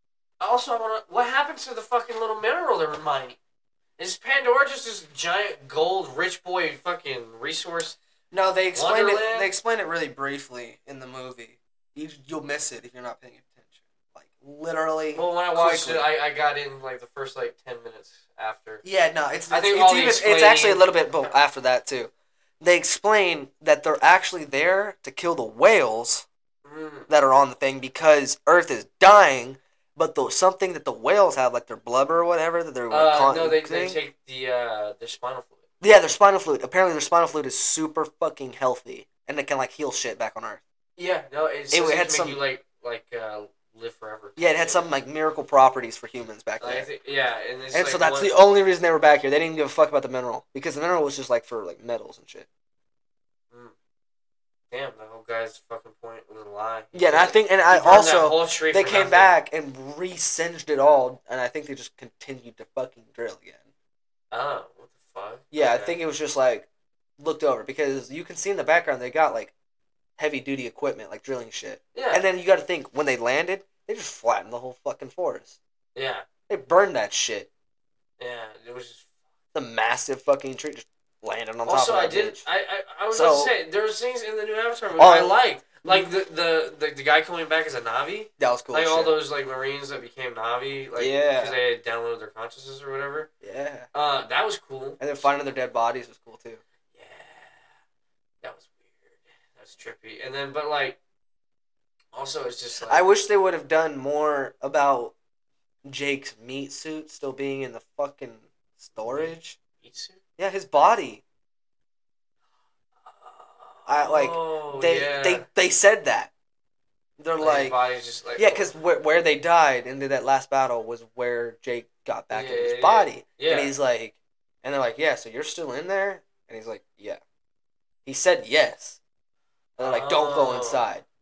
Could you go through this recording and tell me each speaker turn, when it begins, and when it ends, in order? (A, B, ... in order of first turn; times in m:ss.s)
0:00.4-0:03.4 A
0:04.0-0:08.0 A
0:08.3-0:16.1 B
0:08.7-0:09.5 A
0:15.1-0:18.8 A
0:18.8-0:26.3 B
0:19.5-0:21.0 A
0:26.6-0:27.1 A
0:27.1-0:34.0 B
0:32.9-0:35.6 A
0:35.8-0:40.6 B
0:41.0-0:44.9 A
0:41.7-0:42.4 B
0:44.4-0:46.9 B
0:46.6-0:48.3 A
0:47.7-0:52.5 B
0:54.7-0:59.4 A
0:56.9-1:03.7 B
1:04.3-1:06.0 A
1:05.5-1:06.7 B
1:07.2-1:09.5 B
1:10.2-1:15.6 B
1:11.9-1:12.2 A
1:16.0-1:16.3 A
1:16.5-1:17.5 B
1:18.2-1:19.0 A
1:19.5-1:22.4 B
1:21.7-1:33.3 A
1:23.1-1:23.5 B
1:25.0-1:26.1 B
1:28.4-1:29.1 B
1:31.0-1:31.6 B
1:33.4-1:33.9 B
1:33.9-1:35.0 A
1:35.0-1:36.6 B
1:36.9-1:37.6 A
1:38.4-1:41.0 A
1:42.1-1:43.0 A
1:42.9-1:45.1 B
1:45.8-1:49.6 B
1:49.0-1:50.2 A
1:50.4-1:51.2 B
1:53.0-1:55.5 A
1:53.9-1:56.3 B
1:57.2-1:57.8 B
1:57.4-1:58.7 A
1:58.4-2:07.2 B
2:02.3-2:03.8 A
2:08.1-2:09.0 B
2:09.8-2:11.0 B
2:09.8-2:10.8 A